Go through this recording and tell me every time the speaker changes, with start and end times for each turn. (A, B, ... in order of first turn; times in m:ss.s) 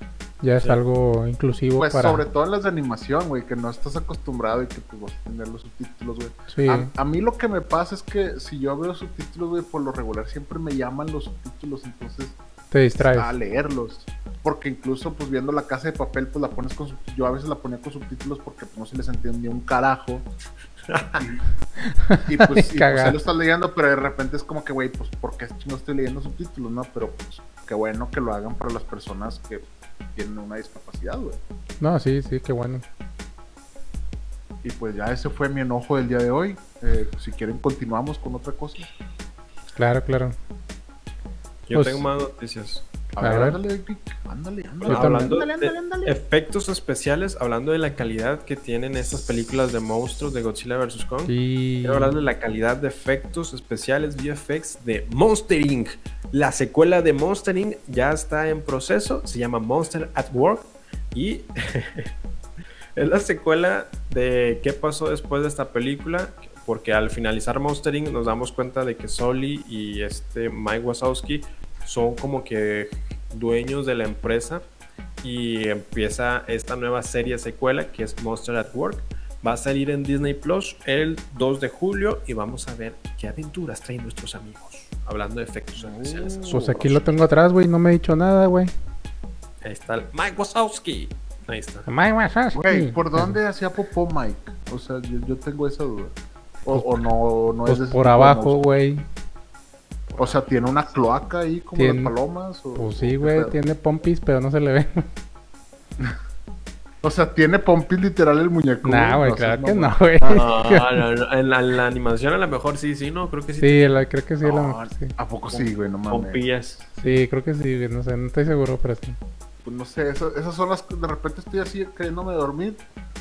0:00.4-0:02.2 A
0:01.8-0:12.4 B
0:06.5-0:06.9 A
0:12.7-0:13.3 A
0:13.0-0:20.2 B
0:20.9-0:21.2 C
0:21.2-0:21.4 B
0:21.8-0:23.2 A
0:22.2-0:31.4 B
0:31.8-0:32.8 A
0:34.6-0:38.9 B
0:39.8-0:40.3 A
0:41.7-0:42.8 C
0:41.7-0:42.0 A
0:43.1-0:46.1 B
0:43.2-0:43.6 A
0:44.8-1:02.1 C
0:44.8-0:45.4 A
0:51.3-0:52.1 A
1:03.0-1:14.6 C
1:15.2-1:27.1 C
1:25.8-1:26.9 B
1:26.5-1:28.7 A
1:29.6-1:31.9 C
1:31.9-1:33.4 A
1:32.5-1:38.6 B
1:37.6-1:39.1 A
1:40.1-1:40.7 C
1:40.2-1:43.6 B
1:41.8-1:42.1 A
1:42.7-1:45.1 A
1:47.0-1:50.4 B
1:48.8-1:51.0 A
1:50.3-1:53.9 C
1:53.6-1:55.2 A
1:54.4-1:56.4 B
1:55.5-1:56.9 C
1:57.0-1:59.2 A
1:59.6-2:02.8 B